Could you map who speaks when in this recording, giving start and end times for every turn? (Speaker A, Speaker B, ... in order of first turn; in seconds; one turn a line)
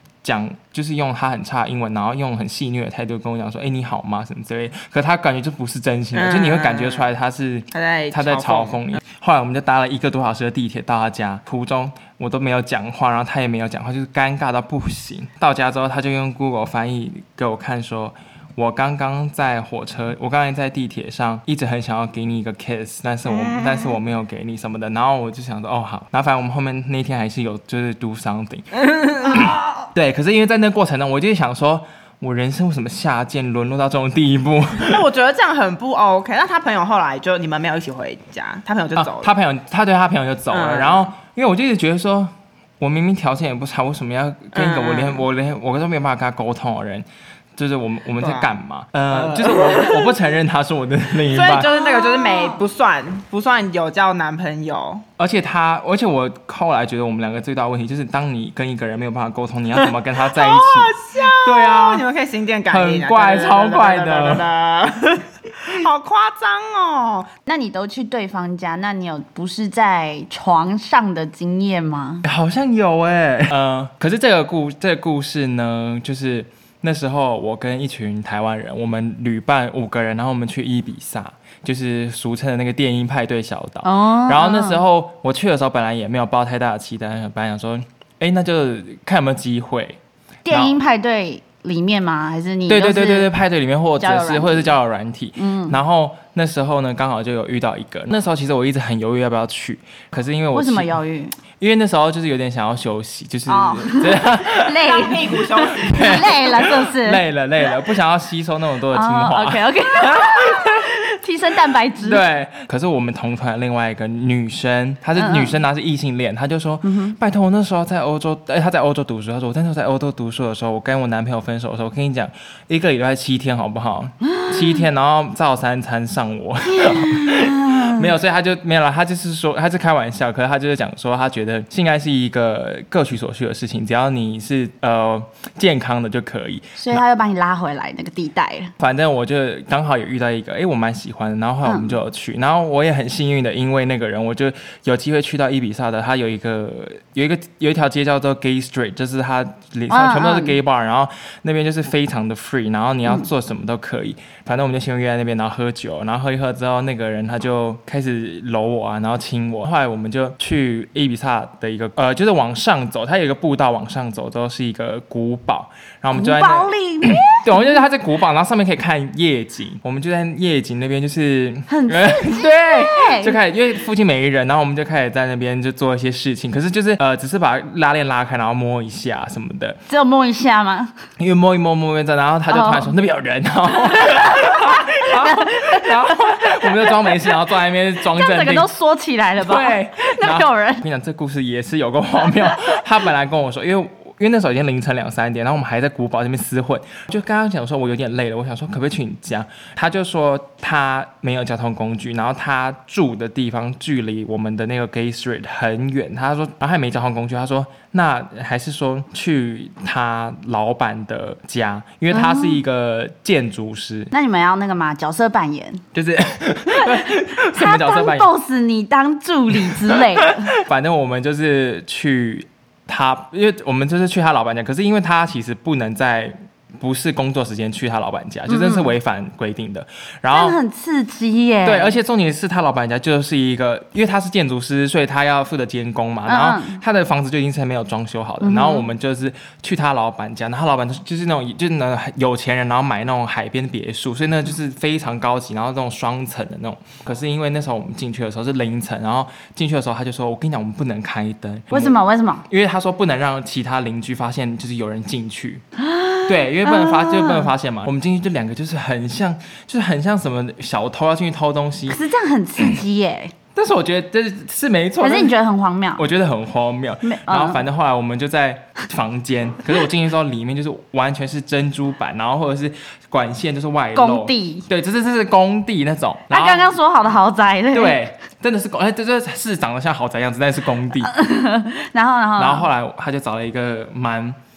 Speaker A: 0.2-35.0
Speaker B: 6.1-7.1
Speaker B: 7.7-9.0
Speaker B: 23.3-24.0
Speaker B: 28.8-29.9
Speaker B: 34.8-39.3
Speaker A: 39.0-51.7
Speaker B: 40.5-41.1
Speaker B: 44.5-45.2
Speaker B: 48.2-48.5
Speaker B: 49.1-50.2
Speaker B: 51.3-55.1
Speaker C: 51.7-52.6
Speaker A: 55.2-62.1
Speaker B: 60.3-67.3
Speaker A: 62.7-64.5
Speaker C: 67.5-72.2
Speaker A: 72.2-90.8
Speaker C: 83.8-84.8
Speaker C: 90.5-93.3
Speaker A: 92.7-101.0
Speaker C: 94.0-94.7
Speaker C: 95.4-95.8
Speaker C: 100.5-101.4
Speaker A: 101.6-105.0
Speaker C: 103.5-107.2
Speaker B: 104.8-106.3
Speaker A: 105.6-110.9
Speaker C: 108.9-112.2
Speaker A: 112.0-137.0
Speaker C: 115.2-115.6
Speaker C: 116.8-117.2
Speaker C: 124.2-124.8
Speaker C: 126.7-128.1
Speaker C: 136.8-138.7
Speaker A: 138.8-179.8
Speaker C: 141.7-142.0
Speaker C: 149.9-150.6
Speaker C: 166.1-167.8
Speaker C: 171.7-173.4
Speaker C: 179.9-180.9
Speaker A: 181.2-188.7
Speaker C: 182.5-182.9
Speaker C: 184.0-187.2
Speaker C: 188.0-190.8
Speaker A: 189.4-214.1
Speaker C: 212.1-212.6
Speaker C: 214.1-215.8
Speaker A: 215.9-218.3
Speaker C: 216.7-220.5
Speaker A: 219.7-230.6
Speaker C: 228.5-228.9
Speaker C: 230.3-232.0
Speaker A: 231.6-255.6
Speaker C: 236.3-236.8
Speaker C: 238.4-238.9
Speaker C: 251.7-252.4
Speaker C: 255.8-257.5
Speaker A: 256.3-262.0
Speaker C: 261.9-263.3
Speaker A: 263.6-265.4
Speaker C: 265.0-266.0
Speaker A: 266.0-276.7
Speaker C: 267.0-267.6
Speaker C: 273.9-274.7
Speaker C: 276.3-278.0
Speaker A: 277.7-281.1
Speaker C: 281.0-282.7
Speaker A: 282.4-284.4